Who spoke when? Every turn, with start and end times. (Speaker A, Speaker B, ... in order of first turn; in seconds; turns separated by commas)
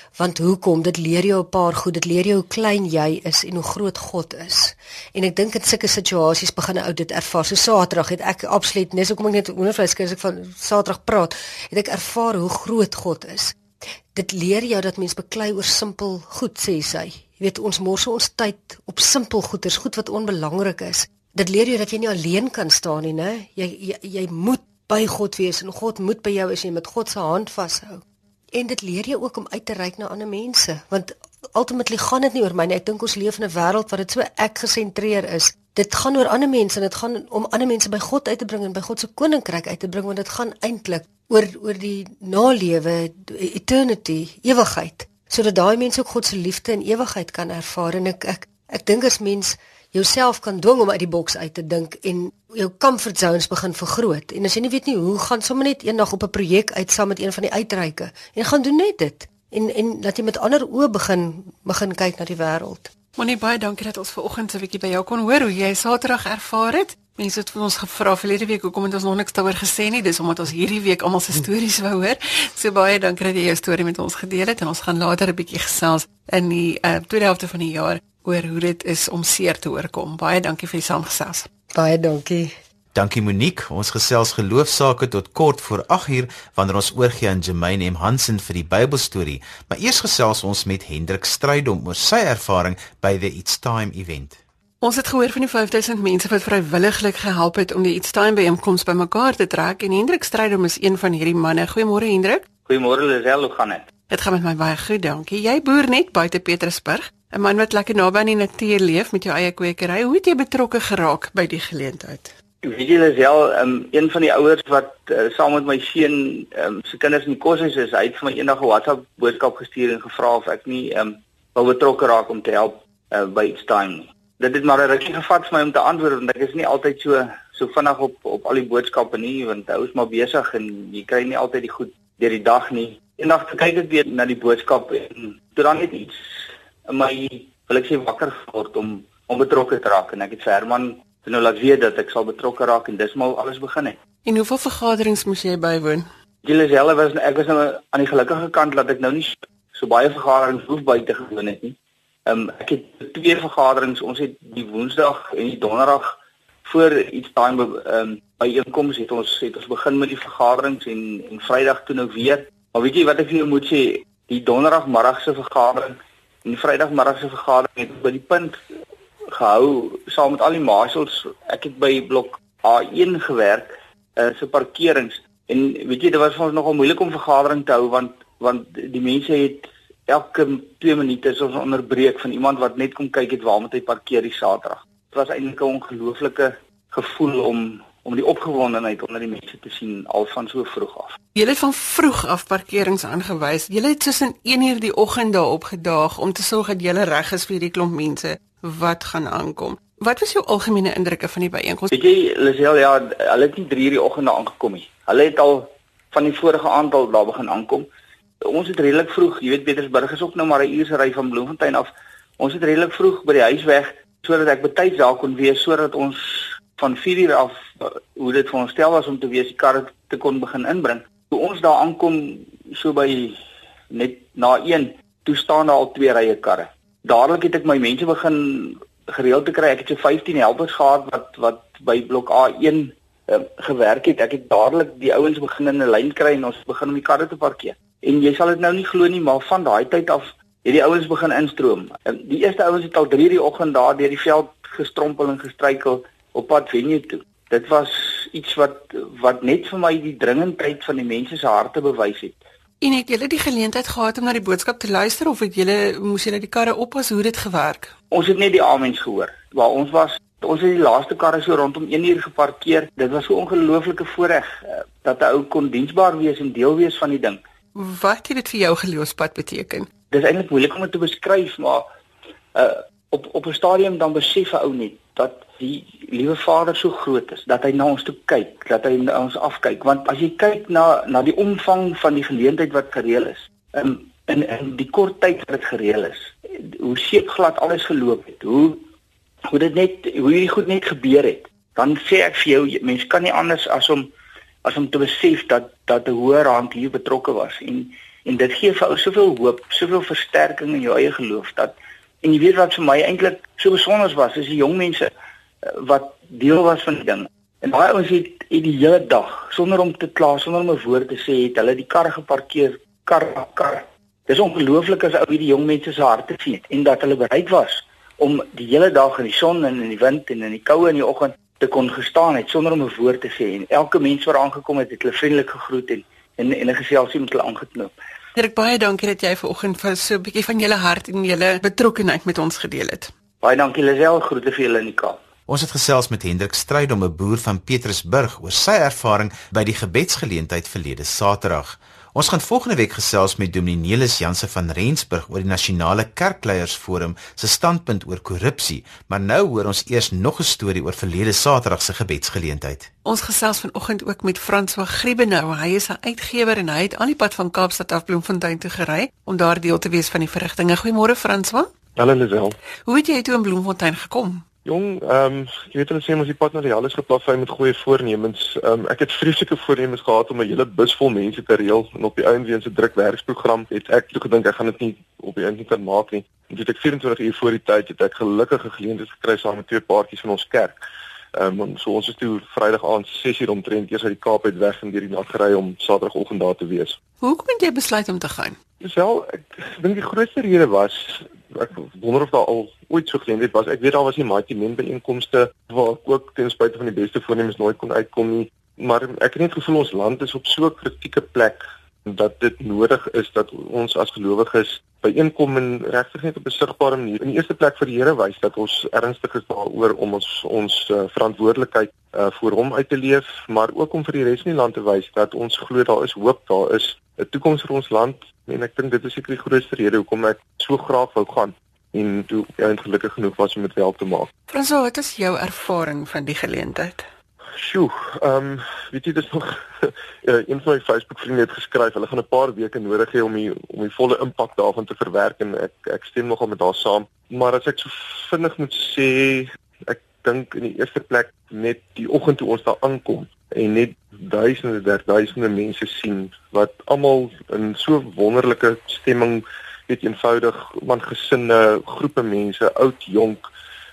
Speaker A: 0.2-13.6, Speaker A: 14.1-62.9, Speaker B: 63.1-81.5, Speaker A: 81.7-82.5, Speaker C: 82.9-94.4, Speaker B: 94.8-102.4, Speaker D: 102.7-103.9, Speaker B: 104.1-112.3, Speaker D: 112.6-136.2, Speaker D: 136.9-144.0, Speaker B: 144.2-146.1, Speaker D: 146.4-151.7, Speaker D: 152.2-156.1, Speaker D: 156.6-168.6, Speaker D: 169.3-191.2, Speaker B: 191.3-201.9, Speaker D: 201.9-207.9, Speaker D: 208.4-223.4, Speaker D: 223.9-252.4, Speaker B: 252.8-257.9, Speaker D: 258.1-267.4, Speaker B: 267.8-269.9, Speaker D: 270.1-271.8, Speaker D: 272.5-288.8, Speaker D: 289.5-294.1, Speaker D: 294.6-305.1, Speaker D: 305.7-327.9, Speaker B: 328.4-333.1, Speaker D: 333.4-335.2, Speaker C: 335.5-352.9, Speaker B: 353.0-361.7, Speaker E: 361.9-362.6, Speaker B: 362.8-364.4, Speaker E: 364.6-380.8, Speaker E: 381.3-387.0, Speaker B: 387.2-388.6, Speaker E: 388.8-424.3, Speaker B: 424.5-427.1, Speaker E: 427.6-453.5